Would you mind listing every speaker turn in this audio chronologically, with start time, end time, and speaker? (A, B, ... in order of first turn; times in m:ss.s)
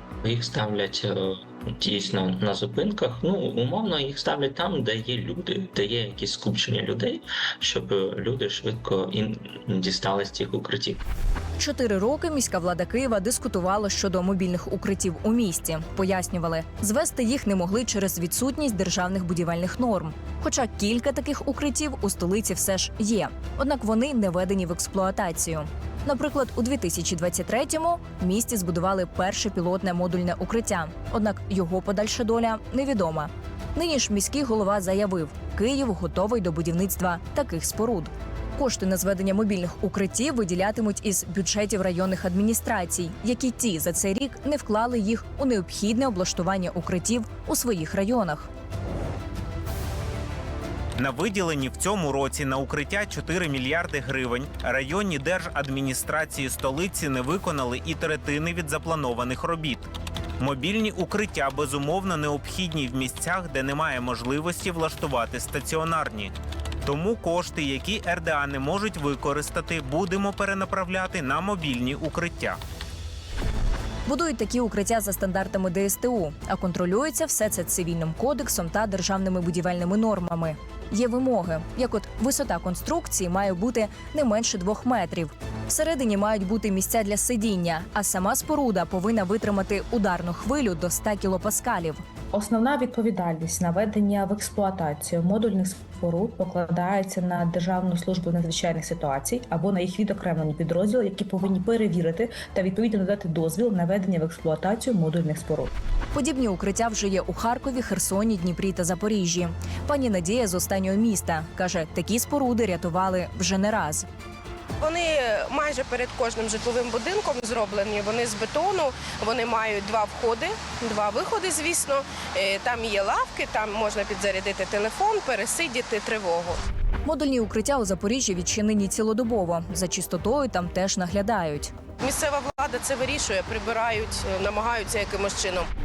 0:00.2-0:11.0 A
0:11.6-0:48.5 B
0:51.0-0:59.9 C
1:00.4-1:06.3 C
1:06.8-1:12.6 C
1:14.1-1:32.0 B
1:32.3-1:45.7 D
1:46.1-1:54.1 B
1:54.8-2:06.6 E
2:07.0-2:11.7 B
2:12.0-2:15.7 E